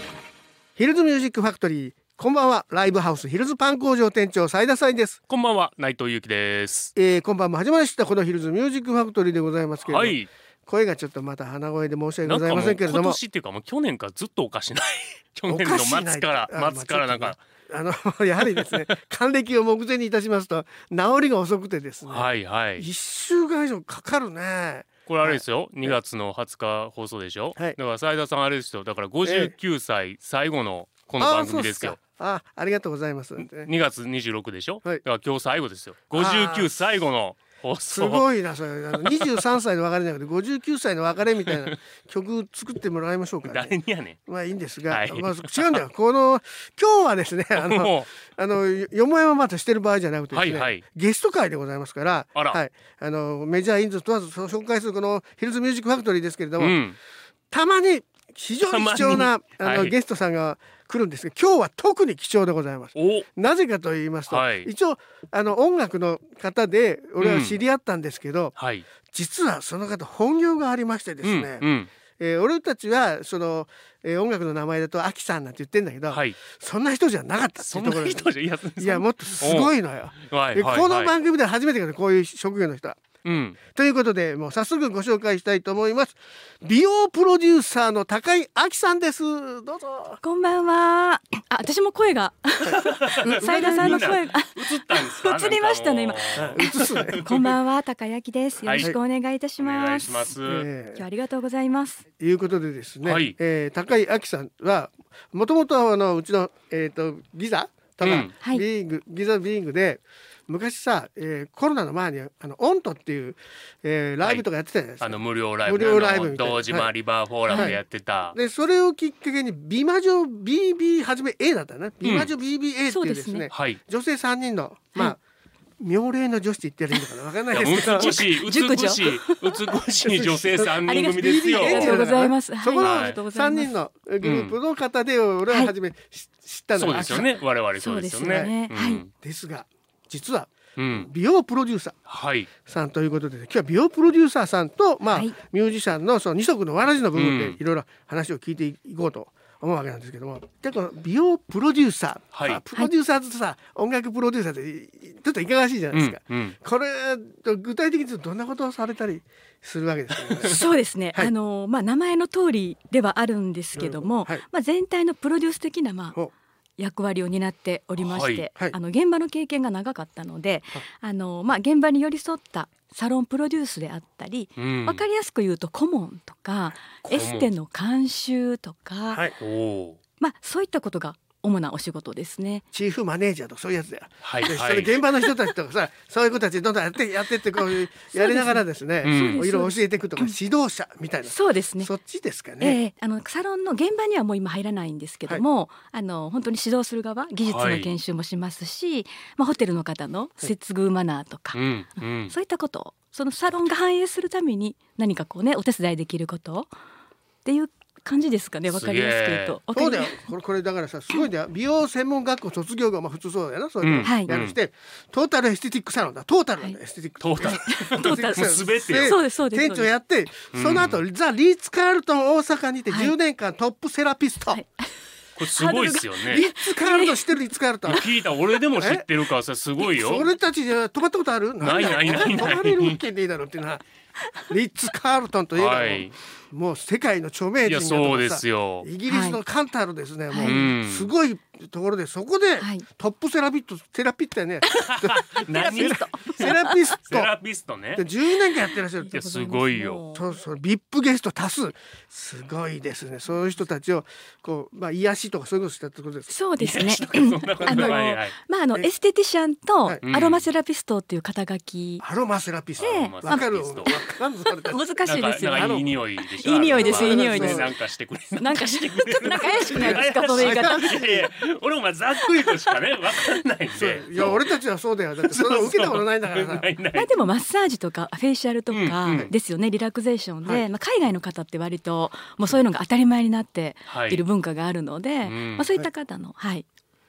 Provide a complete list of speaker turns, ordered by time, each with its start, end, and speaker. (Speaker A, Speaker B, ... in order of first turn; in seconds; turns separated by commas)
Speaker A: 0.8-5.2, Speaker B: 5.3-6.9, Speaker A: 7.0-13.2, Speaker B: 9.9-10.3, Speaker B: 12.3-17.4, Speaker A: 15.5-22.3, Speaker B: 18.6-18.8, Speaker B: 22.1-22.9, Speaker A: 22.8-26.0, Speaker B: 25.1-32.0, Speaker A: 29.2-29.5, Speaker A: 31.2-33.7, Speaker B: 33.5-38.3, Speaker A: 36.1-36.7, Speaker A: 37.9-43.8, Speaker B: 39.0-39.4, Speaker B: 41.5-41.7, Speaker B: 43.5-44.2, Speaker A: 44.3-56.8, Speaker B: 44.9-45.8, Speaker B: 47.6-48.1, Speaker B: 50.3-50.8, Speaker B: 56.6-57.0, Speaker A: 57.5-68.5, Speaker B: 58.6-59.9, Speaker B: 63.0-63.3, Speaker B: 64.3-64.7, Speaker B: 67.2-67.6, Speaker B: 68.6-68.9, Speaker A: 69.1-71.7, Speaker B: 71.2-71.9, Speaker A: 72.2-83.1, Speaker B: 76.1-76.4, Speaker B: 77.6-81.1, Speaker B: 83.2-83.6, Speaker A: 83.7-90.2, Speaker C: 90.2-100.3, Speaker B: 92.7-97.5, Speaker A: 93.2-94.2, Speaker A: 96.4-97.2, Speaker B: 98.7-98.9, Speaker B: 99.6-100.7, Speaker A: 100.4-101.0, Speaker C: 101.0-102.0, Speaker A: 102.2-116.9, Speaker B: 103.0-103.3, Speaker B: 108.0-108.3, Speaker B: 115.0-118.4, Speaker C: 117.5-117.8, Speaker A: 117.5-117.8, Speaker A: 118.3-125.2, Speaker B: 122.0-122.3, Speaker C: 122.9-123.5, Speaker B: 123.5-123.8, Speaker A: 125.8-128.1, Speaker B: 127.5-132.1, Speaker C: 127.7-129.6, Speaker A: 130.0-137.3, Speaker C: 130.6-133.8, Speaker B: 132.8-133.2, Speaker B: 134.2-134.6, Speaker B: 136.8-139.1, Speaker C: 136.9-137.2, Speaker C: 137.8-139.0, Speaker A: 138.2-138.5, Speaker A: 139.1-142.0, Speaker B: 140.8-141.1, Speaker B: 142.1-142.5, Speaker A: 142.7-161.3, Speaker B: 147.2-147.6, Speaker B: 152.3-152.6, Speaker B: 155.9-156.6, Speaker B: 160.2-160.5, Speaker C: 160.4-166.2, Speaker A: 163.8-164.4, Speaker C: 166.8-179.3, Speaker B: 168.0-168.4, Speaker B: 174.6-175.0, Speaker B: 177.1-177.5, Speaker B: 179.4-180.0, Speaker C: 180.2-182.6, Speaker A: 182.7-192.8, Speaker B: 184.2-185.0, Speaker C: 188.1-190.3, Speaker B: 189.0-189.4, Speaker C: 191.3-191.9, Speaker C: 192.6-201.6, Speaker B: 197.4-197.9, Speaker B: 201.5-202.3, Speaker C: 202.3-206.7, Speaker C: 207.4-210.3, Speaker B: 208.7-209.6, Speaker A: 209.7-224.6, Speaker B: 213.8-214.6, Speaker C: 214.0-214.3, Speaker B: 217.2-219.2, Speaker C: 217.4-219.9, Speaker B: 220.5-221.0, Speaker C: 222.9-223.1, Speaker C: 224.5-227.4, Speaker B: 225.4-226.5, Speaker A: 226.3-228.1, Speaker B: 227.9-230.3, Speaker C: 227.9-228.2, Speaker A: 228.8-229.1, Speaker A: 229.8-233.8, Speaker B: 231.6-233.0, Speaker A: 234.4-247.3, Speaker B: 235.6-236.2, Speaker B: 237.7-238.9, Speaker C: 239.1-239.4, Speaker C: 240.3-240.7, Speaker B: 240.4-241.1, Speaker C: 242.6-242.9, Speaker C: 244.7-246.9, Speaker B: 244.9-246.5, Speaker B: 247.1-248.1, Speaker A: 247.9-249.2, Speaker C: 249.0-250.3, Speaker B: 249.1-250.0, Speaker A: 250.2-256.3, Speaker C: 256.3-262.0, Speaker B: 256.6-258.4, Speaker A: 257.6-258.0, Speaker B: 260.1-260.5, Speaker A: 262.0-265.0, Speaker B: 262.8-263.9, Speaker C: 262.8-267.7, Speaker B: 265.0-274.5, Speaker A: 265.5-265.9, Speaker A: 266.6-267.7, Speaker C: 268.4-271.0, Speaker A: 269.3-271.3, Speaker C: 272.2-273.4, Speaker A: 273.7-276.7, Speaker B: 275.2-277.1, Speaker C: 276.9-286.7, Speaker B: 278.7-279.3, Speaker B: 283.9-284.2, Speaker B: 285.2-285.7